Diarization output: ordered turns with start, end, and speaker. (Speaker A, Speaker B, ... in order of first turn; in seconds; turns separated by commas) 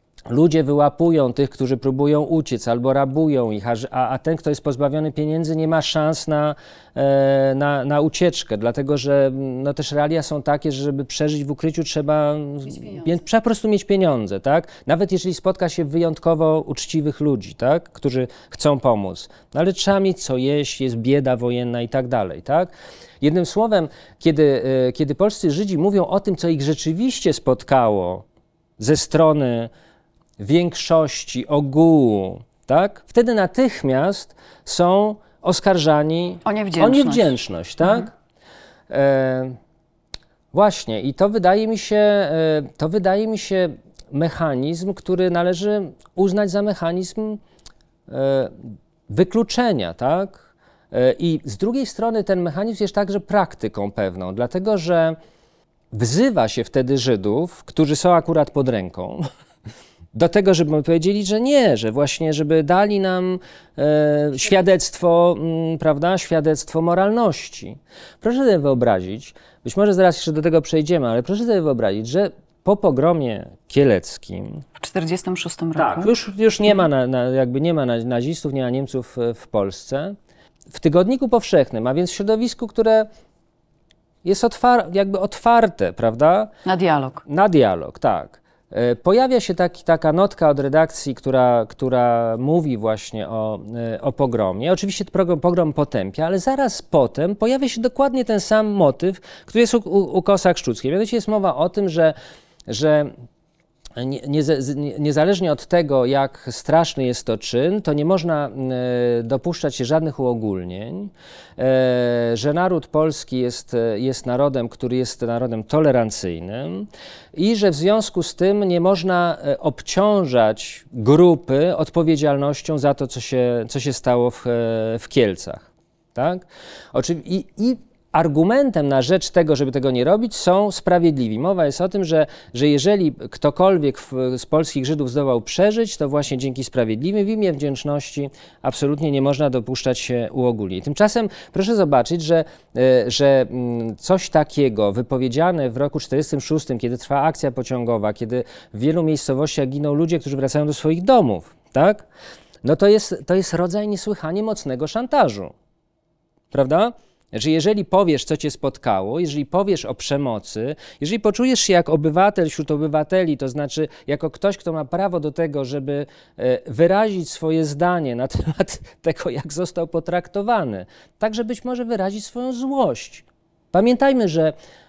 Speaker A: 0.3-28.2, Speaker A: 28.8-29.7, Speaker A: 30.4-38.1, Speaker B: 36.4-37.3, Speaker A: 38.9-39.6, Speaker A: 40.5-47.4, Speaker A: 48.1-55.1, Speaker A: 55.9-59.2, Speaker A: 60.1-74.6, Speaker B: 74.8-76.1, Speaker A: 75.8-80.1, Speaker A: 80.7-83.1, Speaker A: 84.2-86.5, Speaker B: 86.7-87.2, Speaker A: 87.2-102.1, Speaker A: 102.7-103.1, Speaker A: 104.0-152.0, Speaker A: 152.6-155.5, Speaker A: 156.5-174.5